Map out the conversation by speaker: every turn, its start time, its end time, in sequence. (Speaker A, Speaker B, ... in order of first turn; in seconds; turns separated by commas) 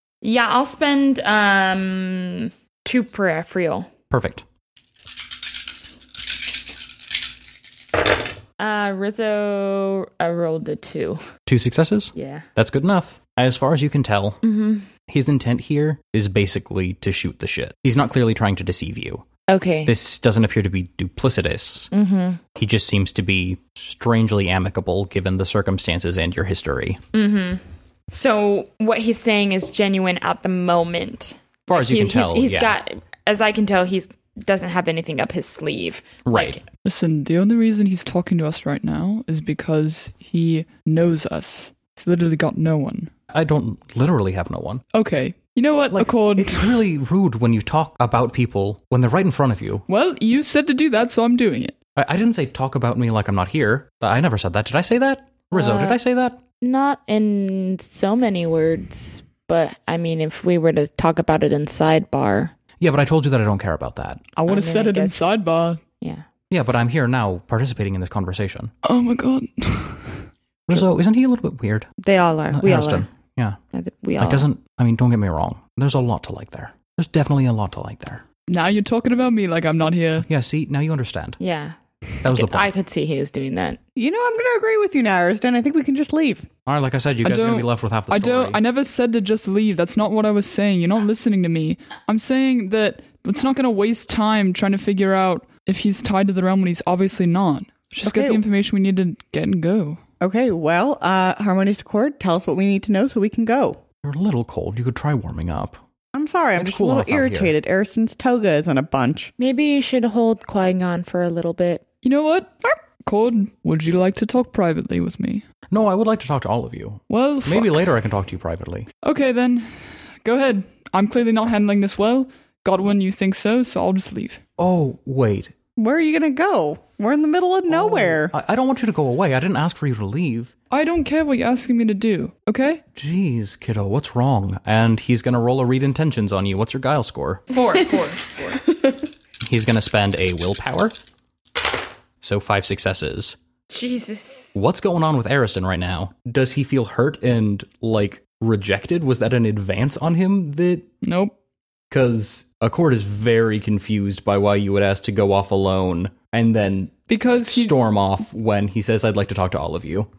Speaker A: 0.2-3.9, Speaker B: 4.1-4.4, Speaker A: 8.6-11.2, Speaker B: 11.5-14.4, Speaker A: 12.2-12.4, Speaker A: 14.4-14.9, Speaker B: 15.1-19.2, Speaker A: 19.5-19.9, Speaker B: 19.9-21.9, Speaker A: 21.9-22.4, Speaker B: 22.5-27.0, Speaker A: 27.1-36.6, Speaker B: 31.7-32.8, Speaker B: 36.2-36.6, Speaker C: 36.9-43.1, Speaker B: 43.3-44.8, Speaker C: 44.9-46.8, Speaker B: 45.9-49.9, Speaker C: 49.9-51.8, Speaker B: 52.0-56.4, Speaker A: 55.5-56.0, Speaker A: 56.6-62.5, Speaker B: 62.8-64.2, Speaker C: 64.4-65.8, Speaker A: 64.5-65.2, Speaker B: 66.5-68.7, Speaker C: 68.8-70.3, Speaker B: 70.7-71.9, Speaker A: 72.0-73.1, Speaker B: 72.5-73.6, Speaker A: 73.7-74.5, Speaker B: 74.2-78.2, Speaker C: 78.5-80.2, Speaker B: 80.2-81.4, Speaker A: 81.4-83.8, Speaker B: 82.2-82.7, Speaker D: 84.0-86.5, Speaker B: 86.7-88.6, Speaker C: 87.2-100.0, Speaker D: 98.0-98.4, Speaker D: 100.2-103.8, Speaker B: 104.0-105.8, Speaker D: 106.1-109.3, Speaker B: 106.6-107.5, Speaker A: 109.4-111.8, Speaker C: 112.0-115.4, Speaker B: 115.7-118.9, Speaker C: 117.1-117.9, Speaker C: 119.0-124.4, Speaker B: 124.6-125.5, Speaker D: 125.8-128.3, Speaker B: 127.7-130.5, Speaker C: 130.7-132.8, Speaker B: 132.9-137.4, Speaker A: 137.5-138.8, Speaker B: 139.4-141.0, Speaker B: 142.2-143.4, Speaker A: 143.7-144.5, Speaker B: 144.5-150.9, Speaker C: 151.0-151.3, Speaker B: 151.9-160.1, Speaker C: 157.1-157.8